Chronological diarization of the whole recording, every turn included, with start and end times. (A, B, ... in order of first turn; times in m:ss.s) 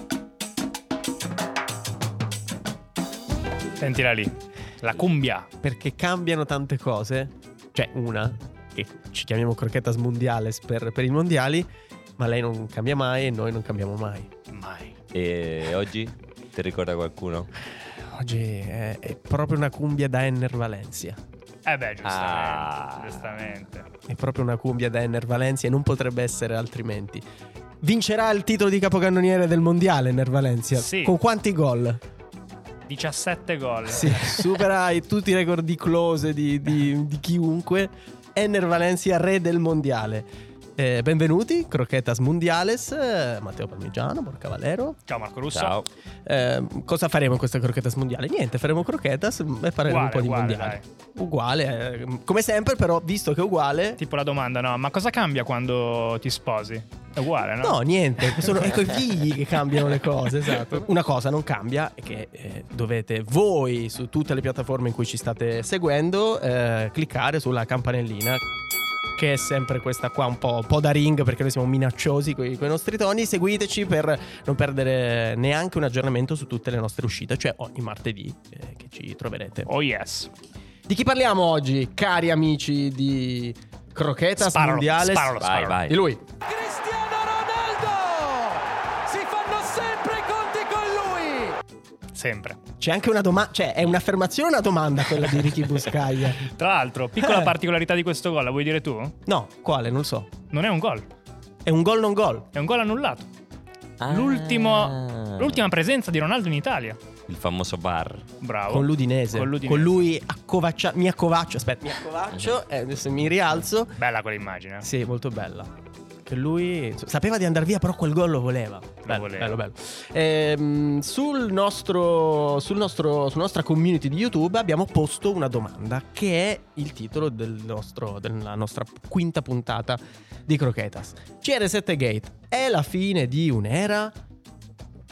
0:03.8-0:05.5 A
0:05.6-0:14.3 B
0:14.5-0:15.0 A
0:15.1-0:17.5 C
0:18.0-0:21.2 B
0:21.6-0:23.8 A
0:22.0-0:23.4 C
0:24.1-0:27.2 B
0:27.8-0:32.0 B
0:30.8-0:31.2 A
0:32.9-0:34.6 A
0:33.9-0:45.0 B
0:45.1-0:45.7 A
0:45.5-0:45.9 C
0:46.2-0:54.0 B
0:49.8-0:50.8 A
0:54.0-0:58.8 A
0:57.6-1:08.4 B
1:09.2-1:19.7 B
1:19.7-1:20.3 A
1:20.9-1:26.2 B
1:24.4-1:25.8 A
1:25.4-1:26.0 C
1:26.5-1:31.6 D
1:32.1-1:32.6 A
1:32.8-1:36.5 B
1:36.4-1:39.2 A
1:37.2-1:37.5 B
1:39.2-1:40.3 B
1:40.5-1:41.1 A
1:41.6-1:42.5 B
1:42.5-1:43.3 A
1:44.0-1:45.6 C
1:44.1-1:47.0 A
1:47.3-1:48.2 C
1:48.4-1:49.9 A
1:48.7-1:53.9 B
1:54.0-1:54.9 A
1:54.8-1:55.7 B
1:56.2-2:14.1 B
1:59.0-1:59.6 A